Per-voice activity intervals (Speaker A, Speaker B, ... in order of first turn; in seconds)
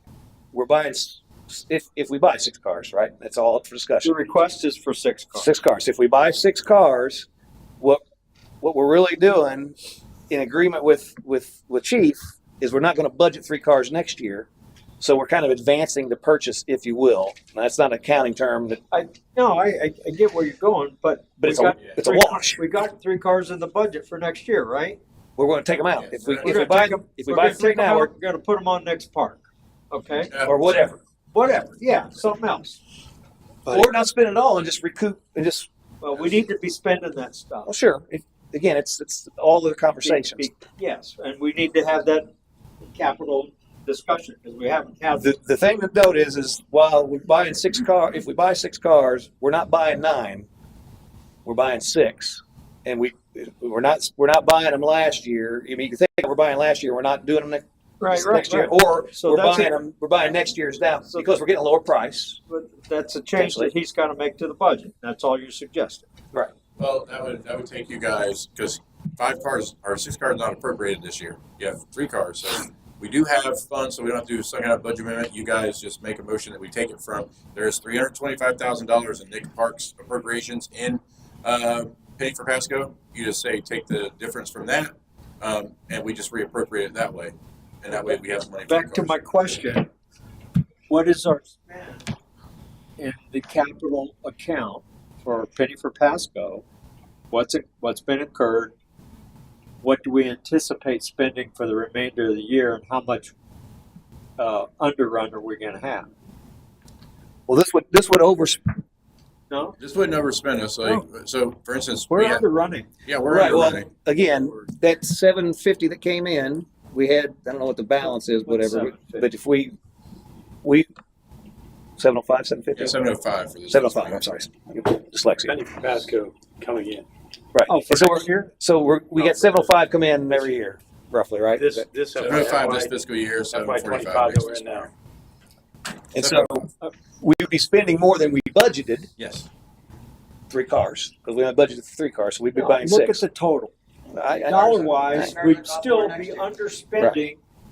Speaker A: 0.5-4.1, 5.3-7.3, 8.6-9.8, 10.3-14.5, 15.0-18.8, 21.4-22.6, 25.4-28.1, 30.4-31.0, 33.7-35.7, 37.6-40.5, 45.2-50.5, 51.4-62.4, 63.4-63.7, 107.5-108.6, 113.2-119.7, 122.0-123.0, 123.7-125.5, 127.5-131.8, 136.1-136.7, 137.2-139.1, 140.5-143.2, 144.1-147.2
Speaker B: 4.0-5.5, 18.9-25.0, 26.4-30.3, 31.3-32.8, 36.0-37.7, 40.0-42.3, 42.8-45.3, 58.0-59.8, 61.1-61.3, 62.5-66.0, 87.9-89.9, 90.9-92.1, 93.0-96.6, 97.3-98.7, 99.8-103.3, 104.4-106.1, 109.5-109.8, 112.1-112.9, 118.5-119.1, 127.7-128.5, 142.5-143.7, 144.4-147.4
Speaker C: 26.0-26.6, 66.8-89.2, 109.8-112.4, 113.0-113.9, 122.8-124.3, 132.2-134.7, 136.2-136.7, 139.2-139.5
Speaker D: 125.5-127.0, 129.1-129.7, 131.6-133.0, 133.5-134.9